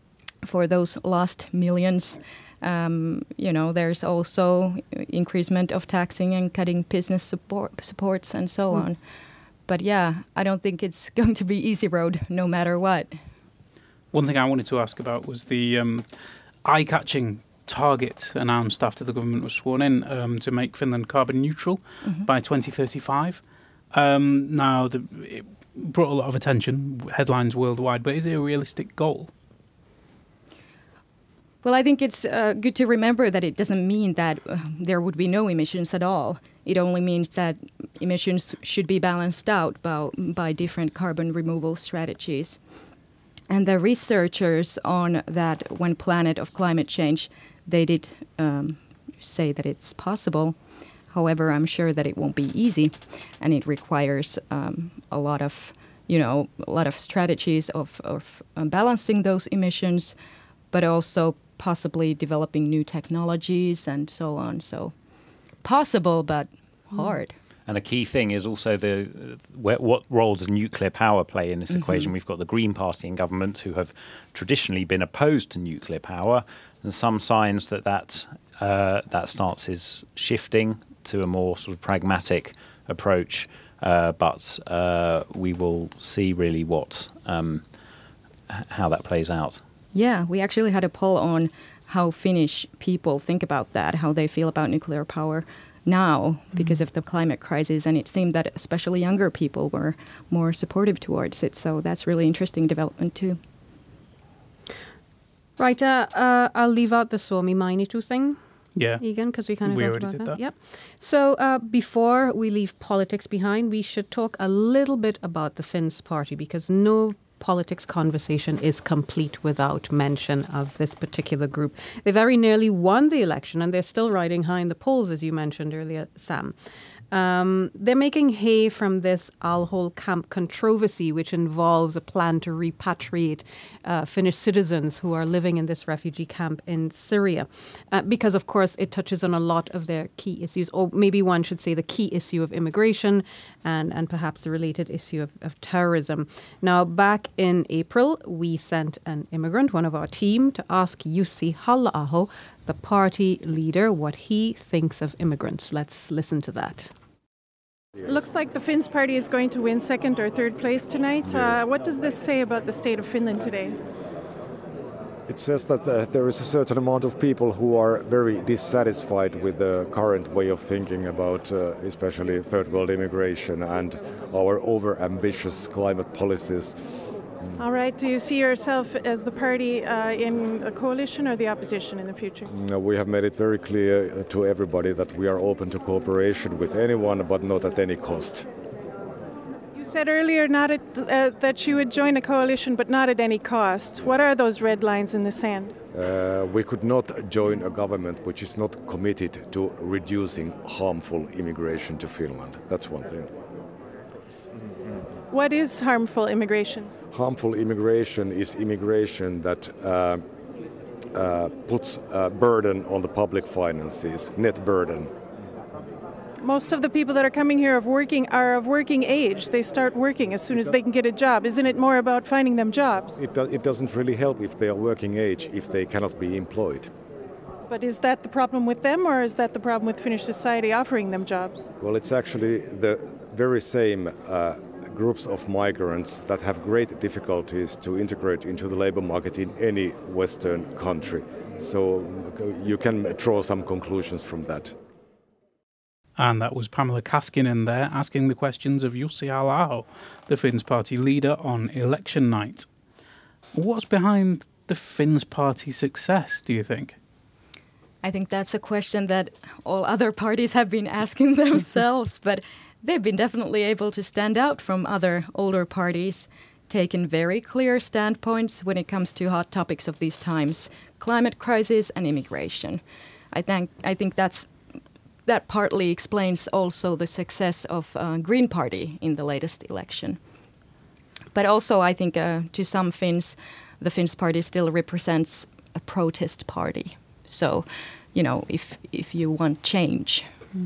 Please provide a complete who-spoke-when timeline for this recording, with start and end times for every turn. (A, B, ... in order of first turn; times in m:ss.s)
0:00.4-0:09.0 A
0:09.7-0:13.2 A
0:14.1-0:16.1 B
0:16.6-0:23.4 B
0:22.0-0:22.3 A
0:23.9-0:29.3 B
0:31.6-0:42.6 A
0:43.5-0:50.6 A
0:51.1-1:00.2 A
1:00.7-1:04.9 A
1:05.6-1:07.4 A
1:07.7-1:27.6 C
1:11.7-1:12.1 A
1:28.5-1:29.6 C
1:29.9-1:43.4 A
1:45.6-1:48.4 D
1:48.8-1:50.4 B
1:49.0-2:06.6 D
2:07.1-2:36.9 D
2:38.0-2:43.8 E
2:41.3-2:41.6 F
2:45.3-2:56.9 F
2:57.6-3:02.5 E
3:02.5-3:08.5 F
3:09.7-3:15.7 E
3:15.9-3:23.3 F
3:25.3-3:26.9 E
3:27.1-3:30.3 F
3:31.1-3:35.1 F
3:36.4-3:43.2 E
3:43.2-3:46.9 F
3:47.6-3:51.6 E
3:51.8-4:04.7 F
4:06.2-4:12.7 B
4:13.5-4:17.0 B
4:18.0-4:32.8 A
4:33.3-4:34.5 A
4:35.3-4:40.2 A
4:41.3-4:50.3 A